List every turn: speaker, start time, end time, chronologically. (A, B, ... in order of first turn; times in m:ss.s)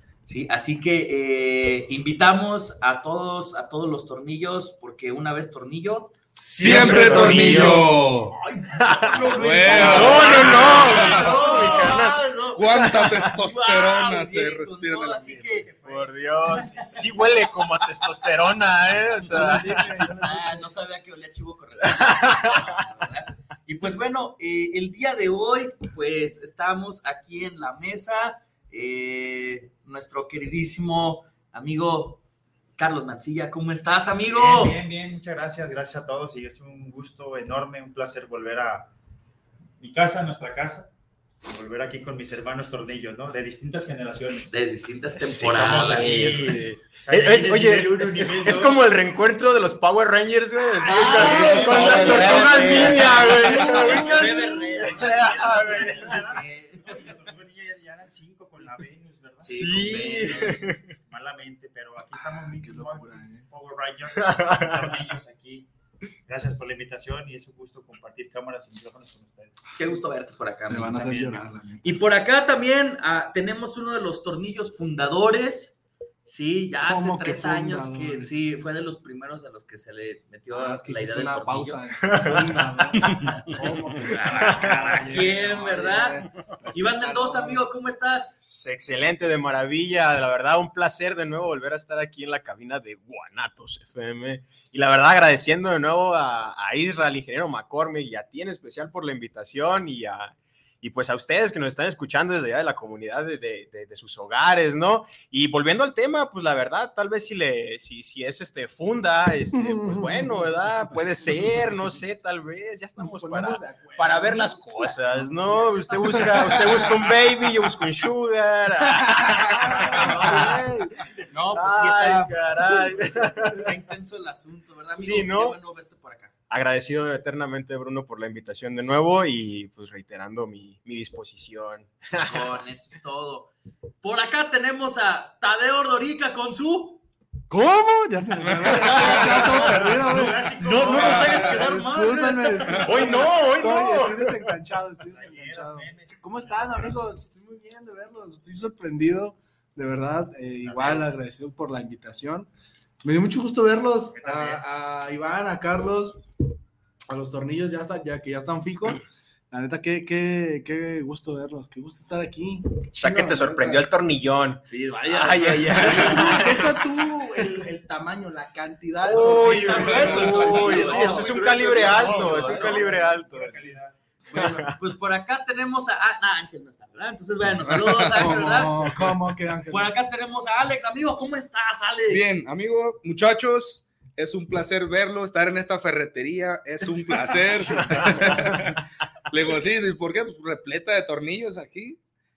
0:00.2-0:06.1 A
0:06.4-0:08.3 B
0:06.5-0:07.8 C
0:06.6-0:07.8 D
0:07.0-0:07.7 A
0:08.2-0:15.7 A
0:08.8-0:12.1 D
0:09.1-0:12.0 B
0:09.6-0:12.0 C
0:12.5-0:15.4 B
0:15.1-0:16.9 C
0:15.8-0:20.0 D
0:19.2-0:20.6 E
0:20.2-0:32.2 A
0:21.9-0:22.5 D
0:32.8-0:34.8 A
0:34.2-0:38.9 C
0:39.8-0:40.9 C
0:41.4-0:44.5 C
0:44.5-0:46.5 A
0:45.2-0:56.0 D
0:45.6-0:48.9 C
0:50.8-0:53.0 C
0:50.8-0:57.2 A
0:51.1-0:53.1 B
0:51.7-0:52.0 E
0:53.4-0:54.1 E
0:53.7-1:05.7 C
0:59.4-1:00.6 A
0:59.5-1:00.9 D
1:02.5-1:03.4 E
1:04.2-1:04.6 D
1:06.2-1:09.6 C
1:09.8-1:11.2 A
1:10.7-1:11.8 E
1:10.8-1:11.4 C
1:11.8-1:21.8 A
1:16.8-1:18.3 E
1:20.5-1:27.6 E
1:22.0-1:23.3 D
1:24.0-1:28.4 A
1:24.4-1:24.8 D
1:28.4-2:00.8 D
1:49.5-1:50.6 E
1:53.0-1:57.0 E
1:59.6-2:00.9 E
1:59.9-2:00.6 A
2:01.3-2:02.5 A
2:01.5-2:03.6 D
2:03.5-2:06.3 A
2:05.0-2:05.6 D
2:06.5-2:12.6 D
2:12.2-2:17.0 A
2:17.5-2:32.5 E
2:18.7-2:19.8 A
2:18.7-2:21.7 C
2:20.4-2:23.3 A
2:22.8-2:24.5 D
2:25.0-2:27.1 C
2:30.6-2:31.1 C
2:33.0-2:36.2 E
2:34.1-2:34.6 C
2:37.1-2:43.7 E
2:42.9-2:47.4 D
2:44.6-2:52.9 E
2:49.0-2:53.6 D
2:49.3-2:52.7 A
2:51.4-2:54.4 C
2:54.2-2:59.0 A
2:54.3-2:54.7 D
2:57.6-2:58.2 B
2:58.1-3:00.0 E
2:59.7-3:02.3 A
3:02.1-3:08.8 B
3:09.3-3:12.0 B